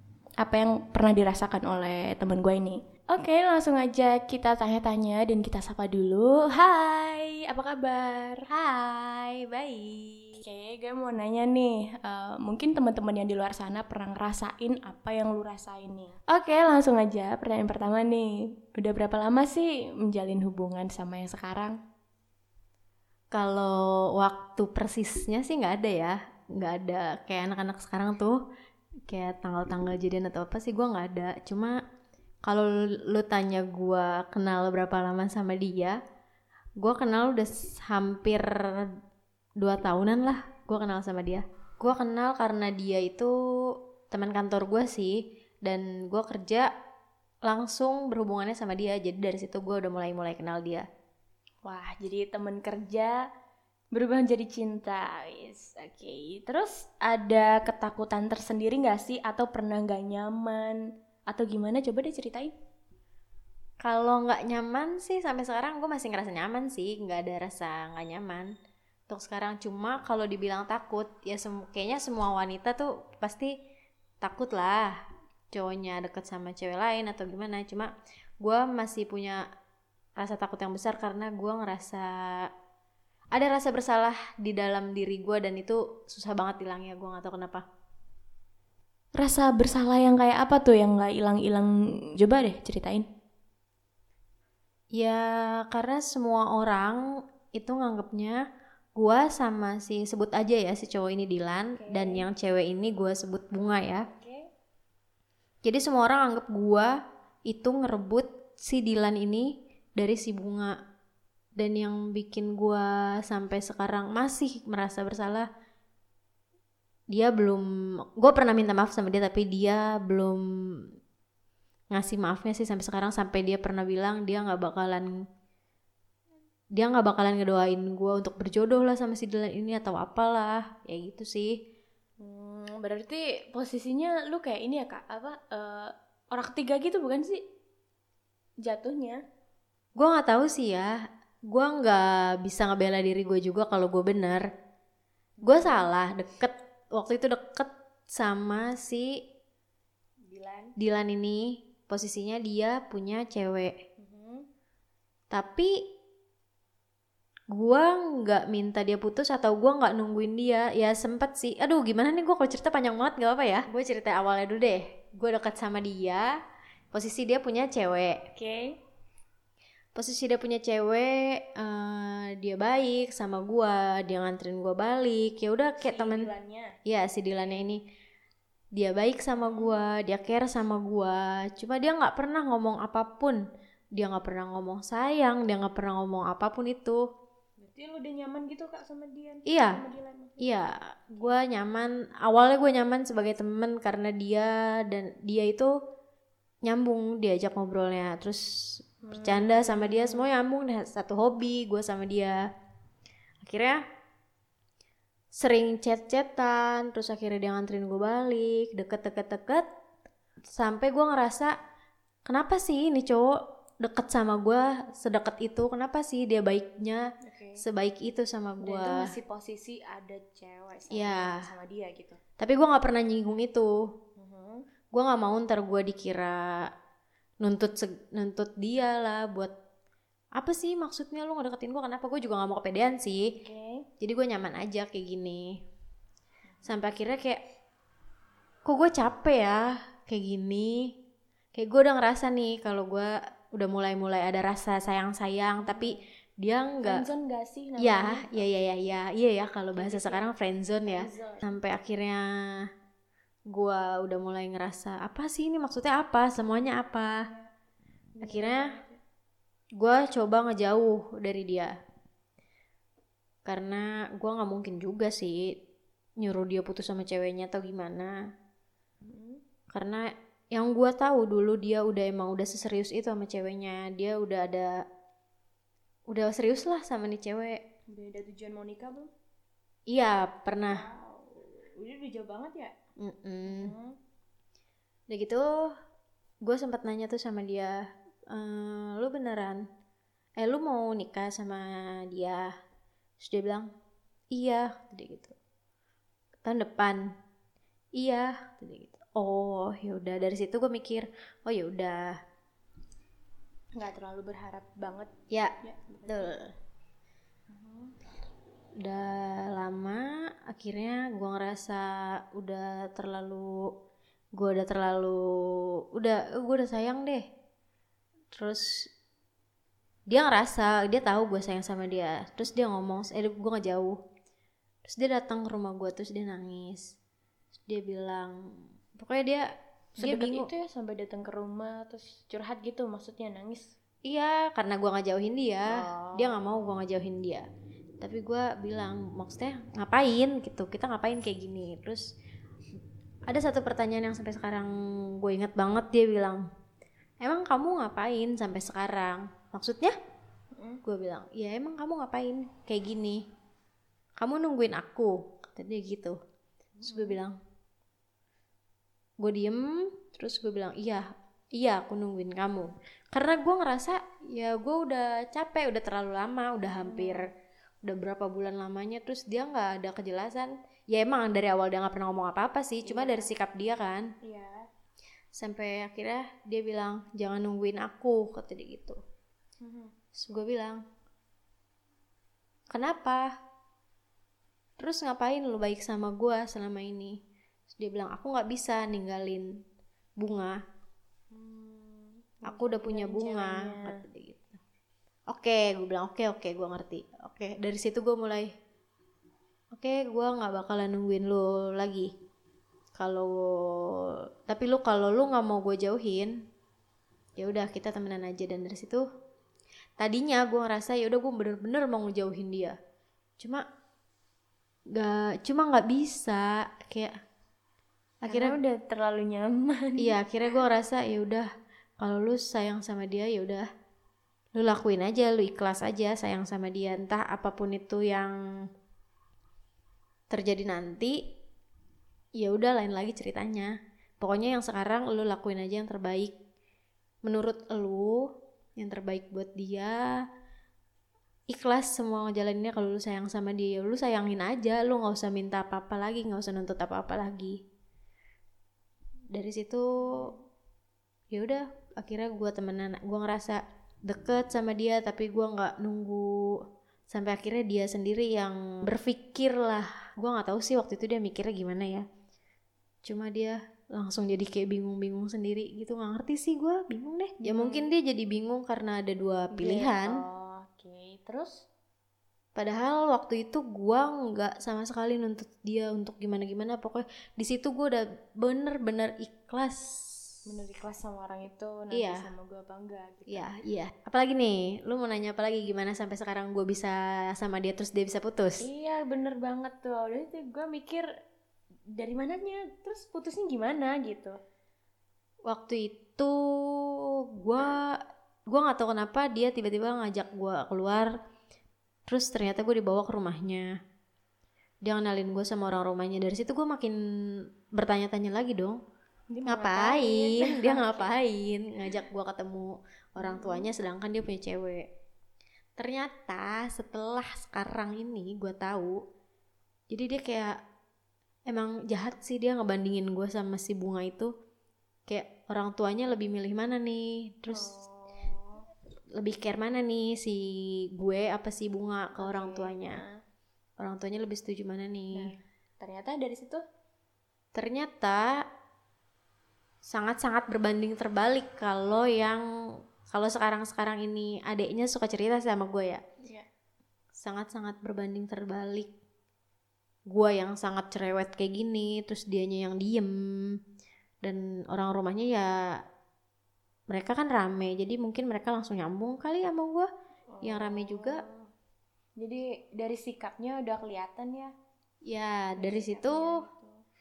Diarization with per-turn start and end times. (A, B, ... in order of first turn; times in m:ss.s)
0:00.4-0:08.5 A
0:08.5-0:10.3 B
0:10.4-0:21.8 A
0:23.3-0:28.4 B
0:29.1-0:31.7 B
0:32.4-0:36.0 B
0:36.8-0:38.9 B
0:39.6-0:43.3 B
0:44.1-0:45.1 B
0:45.6-0:46.7 B
0:47.5-0:50.8 B
0:51.6-0:53.1 A
0:53.9-1:02.5 A
1:03.8-1:08.5 B
1:09.1-1:13.5 B
1:14.2-1:14.9 B
1:15.5-1:17.9 B
1:18.4-1:19.4 B
1:20.2-1:22.1 B
1:23.3-1:27.6 B
1:29.2-1:33.0 A
1:34.9-1:37.0 B
1:37.5-1:38.4 B
1:39.0-1:44.0 B
1:41.8-1:42.3 A
1:44.1-1:44.5 A
1:45.6-1:46.9 B
1:47.5-1:49.4 B
1:50.0-1:50.7 B
1:51.6-1:55.4 B
1:57.1-1:57.6 B
1:58.2-2:00.4 B
2:01.9-2:05.1 B
2:06.8-2:11.5 B
2:12.2-2:17.4 A
2:18.6-2:19.2 A
2:20.0-2:20.9 B
2:21.5-2:24.4 B
2:25.4-2:25.9 A
2:25.4-2:29.1 B
2:30.2-2:30.7 A
2:30.8-2:33.7 B
2:34.0-2:34.4 A
2:35.3-2:35.7 B
2:37.5-2:46.3 B
2:46.9-2:48.2 B
2:48.4-2:48.8 A
2:50.0-2:56.3 B
2:55.8-2:56.7 A
2:56.8-2:57.8 B
2:58.8-3:03.4 B
2:59.4-2:59.8 A
3:04.0-3:07.0 B
3:07.6-3:10.4 A
3:09.5-3:09.8 B
3:10.4-3:15.7 B
3:16.6-3:18.4 B
3:19.0-3:20.3 A
3:19.1-3:22.4 B
3:23.4-3:23.8 B
3:25.3-3:29.7 B
3:30.5-3:31.5 B
3:32.3-3:33.3 B
3:33.8-3:37.0 B
3:37.3-3:37.6 A
3:37.6-3:39.0 B
3:38.6-3:42.2 A
3:40.9-3:41.4 B
3:42.4-3:43.7 B
3:44.2-3:44.6 A
3:44.9-3:46.4 B
3:47.4-3:49.5 B
3:50.4-3:53.3 B
3:53.4-3:53.8 A
3:54.0-3:55.4 B
3:56.6-3:57.4 B
3:58.6-4:00.8 B
4:01.6-4:07.1 B
4:05.6-4:06.0 A
4:06.8-4:08.4 A
4:07.8-4:12.2 B
4:09.7-4:10.3 A
4:10.9-4:11.5 A
4:13.5-4:17.1 B
4:17.2-4:17.5 A
4:18.2-4:19.0 A
4:18.2-4:18.7 B
4:19.8-4:21.7 B
4:23.5-4:25.5 B
4:26.2-4:28.2 B
4:29.0-4:29.4 A
4:29.7-4:30.0 B
4:30.5-4:34.7 B
4:36.1-4:37.6 B
4:37.9-4:39.1 A
4:39.9-4:40.8 B
4:40.7-4:42.7 A
4:43.0-4:43.7 B
4:43.4-4:44.0 A
4:45.1-4:45.4 B
4:46.4-4:47.8 B
4:48.3-4:49.6 B
4:50.4-4:52.5 B
4:53.2-4:53.7 B
4:54.3-4:55.3 B
4:56.4-4:57.0 B
4:58.0-5:02.1 B
5:03.8-5:05.1 A
5:05.6-5:06.3 A
5:06.1-5:06.5 B
5:07.5-5:07.9 A
5:08.8-5:13.5 B
5:14.4-5:15.2 B
5:16.0-5:17.2 B
5:18.3-5:18.6 B
5:20.1-5:24.0 B
5:24.9-5:26.8 B
5:27.7-5:28.3 B
5:29.0-5:29.4 B
5:30.0-5:33.7 A
5:30.0-5:30.5 B
5:34.1-5:37.4 B
5:35.7-5:36.5 A
5:38.0-5:42.0 B
5:43.3-5:46.4 B
5:47.2-5:49.9 B
5:50.6-5:50.8 A
5:50.8-5:53.2 B
5:54.2-5:56.2 B
5:56.8-5:57.2 A
5:56.8-5:57.3 B
5:59.2-6:01.0 B
6:01.6-6:07.2 B
6:06.8-6:07.3 A
6:07.8-6:14.1 B
6:12.8-6:13.3 A
6:14.2-6:14.6 A
6:15.4-6:19.0 B
6:19.6-6:19.9 A
6:20.2-6:20.8 B
6:22.7-6:23.3 B
6:24.8-6:27.2 B
6:27.7-6:29.5 B
6:30.2-6:30.6 B
6:31.3-6:33.9 A
6:32.4-6:34.6 B
6:35.3-6:38.5 B
6:39.7-6:42.1 B
6:43.0-6:46.3 B
6:47.4-6:49.0 B
6:50.0-6:52.8 B
6:54.9-6:57.1 B
6:58.3-6:58.6 B
6:58.3-7:00.2 A
7:00.0-7:01.5 B
7:02.0-7:03.7 B
7:04.6-7:08.3 B
7:10.3-7:11.2 B
7:12.4-7:16.3 B
7:17.2-7:18.2 B
7:18.8-7:20.0 B
7:21.5-7:27.6 B
7:29.3-7:29.8 B
7:30.0-7:30.4 A
7:31.3-7:36.3 B
7:37.1-7:42.0 B
7:43.0-7:50.1 B
7:47.4-7:47.9 A
7:49.5-7:51.6 A
7:52.6-7:59.9 B
8:00.5-8:03.5 A
8:01.9-8:02.3 B
8:03.3-8:08.7 B
8:08.6-8:11.1 A
8:12.0-8:14.4 A
8:15.5-8:16.9 B
8:17.4-8:17.8 B
8:18.5-8:21.1 B
8:22.1-8:23.7 B
8:24.8-8:27.0 B
8:27.8-8:28.8 B
8:29.3-8:31.1 A
8:29.5-8:34.8 B
8:33.2-8:33.7 A
8:35.8-8:38.9 B
8:39.9-8:40.5 B
8:41.5-8:44.3 B
8:45.1-8:47.7 B
8:47.5-8:48.6 A
8:49.2-8:50.4 B
8:51.0-8:53.0 B
8:52.2-8:53.2 A
8:53.8-8:55.2 B
8:55.1-8:56.6 A
8:57.6-8:58.2 B
8:59.9-9:02.4 B
9:03.1-9:06.0 B
9:07.2-9:08.9 B
9:10.1-9:13.2 B
9:14.2-9:15.8 B
9:16.9-9:19.9 B
9:20.3-9:21.3 A
9:20.4-9:21.2 B
9:22.2-9:24.5 A
9:25.1-9:26.4 B
9:25.6-9:26.8 A